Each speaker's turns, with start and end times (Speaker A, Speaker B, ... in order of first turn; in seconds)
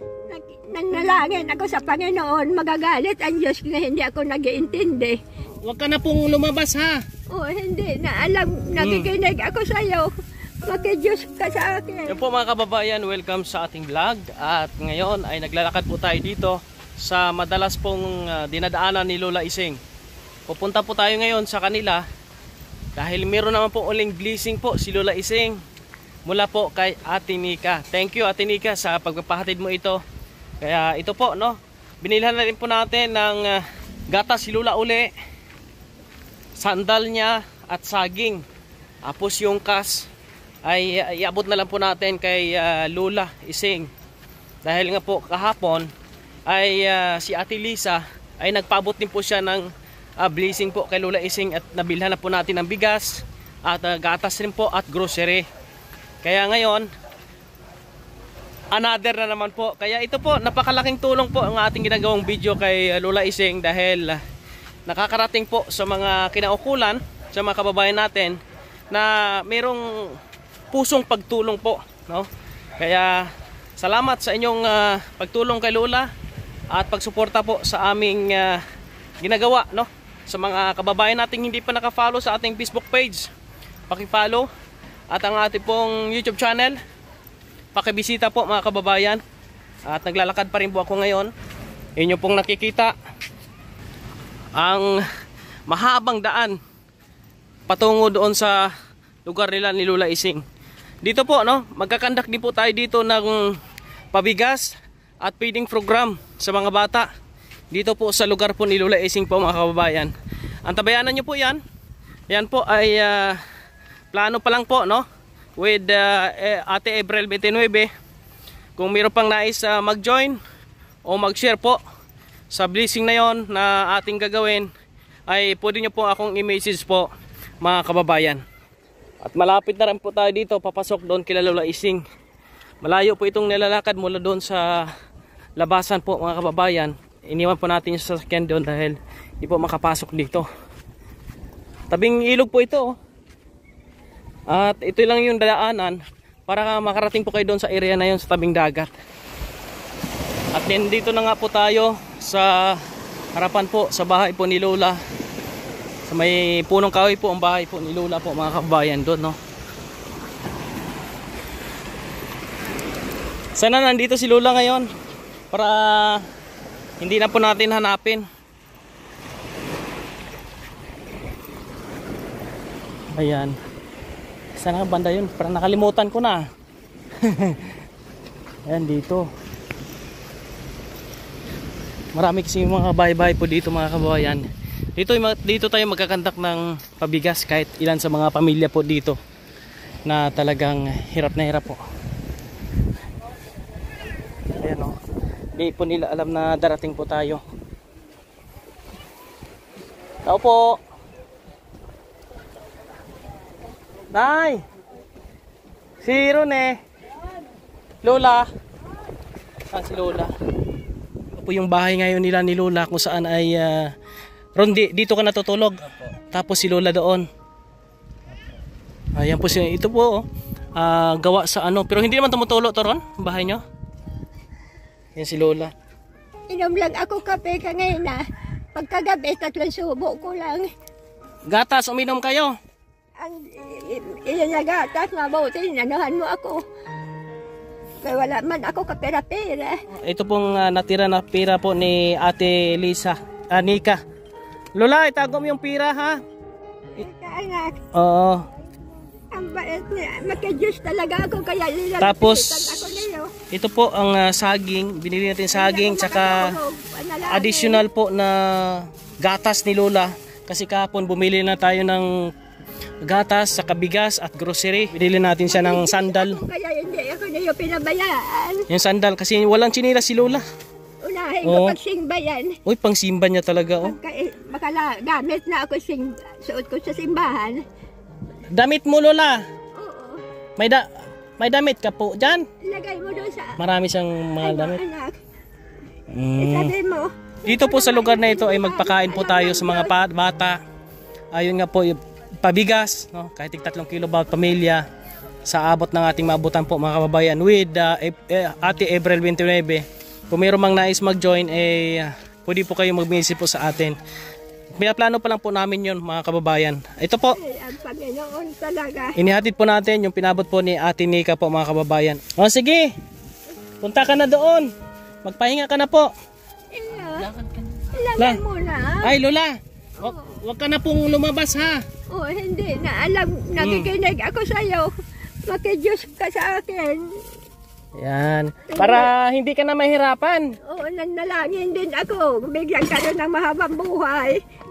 Speaker A: 0.3-5.2, 7.3-10.1, 10.6-12.2, 226.5-228.2, 228.8-230.7, 233.2-236.6, 238.0-239.8, 247.0-247.8, 249.3-253.3, 255.5-257.8, 265.5-268.7, 271.0-272.6, 273.8-277.6, 279.8-280.2, 282.6-283.6, 284.4-285.2, 286.4-289.9, 307.3-309.2, 316.7-317.3, 317.9-319.1, 320.0-320.4, 322.1-324.9, 325.5-327.2, 328.7-329.1, 330.6-334.4
Speaker B: 5.6-7.0, 8.8-9.1, 12.1-19.8, 20.5-22.0, 23.0-25.6, 26.3-30.0, 30.6-35.1, 36.6-38.4, 39.0-40.1, 40.6-43.9, 44.6-45.9, 46.5-49.7, 50.2-55.5, 56.2-56.9, 58.7-64.2, 64.9-68.4, 68.9-70.2, 70.7-76.1, 76.7-78.6, 79.2-83.3, 83.9-84.5, 85.1-86.8, 87.7-89.2, 89.9-91.3, 92.0-93.0, 94.5-95.0, 95.7-96.6, 97.7-98.7, 99.2-100.4, 101.0-103.6, 104.1-107.1, 107.7-110.1, 110.7-111.6, 112.3-113.4, 114.1-115.1, 115.6-117.9, 118.8-120.4, 121.0-121.8, 122.5-124.7, 125.3-127.1, 127.6-128.4, 129.2-132.0, 132.8-134.9, 135.6-140.5, 141.9-143.0, 144.5-148.9, 150.5-152.8, 153.3-155.0, 156.1-159.4, 163.6-164.9, 165.5-166.2, 167.0-168.3, 173.1-173.6, 174.6-176.5, 177.2-177.8, 178.7-179.3, 182.2-189.2, 190.1-191.8, 194.6-195.0, 195.6-197.4, 200.2-200.8, 204.1-204.6, 206.0-206.8, 208.0-208.5, 209.7-210.3, 211.3-213.9, 214.6-217.3, 219.2-220.2, 220.8-223.6, 225.2-225.7, 231.5-232.6, 239.9-244.0, 244.8-246.2, 247.9-248.4, 252.0-256.6, 257.3-262.1, 263.0-266.4, 268.7-270.4, 271.4-271.8, 272.6-274.0, 278.5-279.4, 280.6-280.9, 281.4-282.4, 283.6-284.8, 286.1-286.8, 287.5-290.6, 291.3-294.9, 295.5-304.0, 304.8-307.4, 309.2-312.9, 313.8-314.7, 315.2-316.1, 319.0-321.8, 323.6-323.9, 328.0-330.5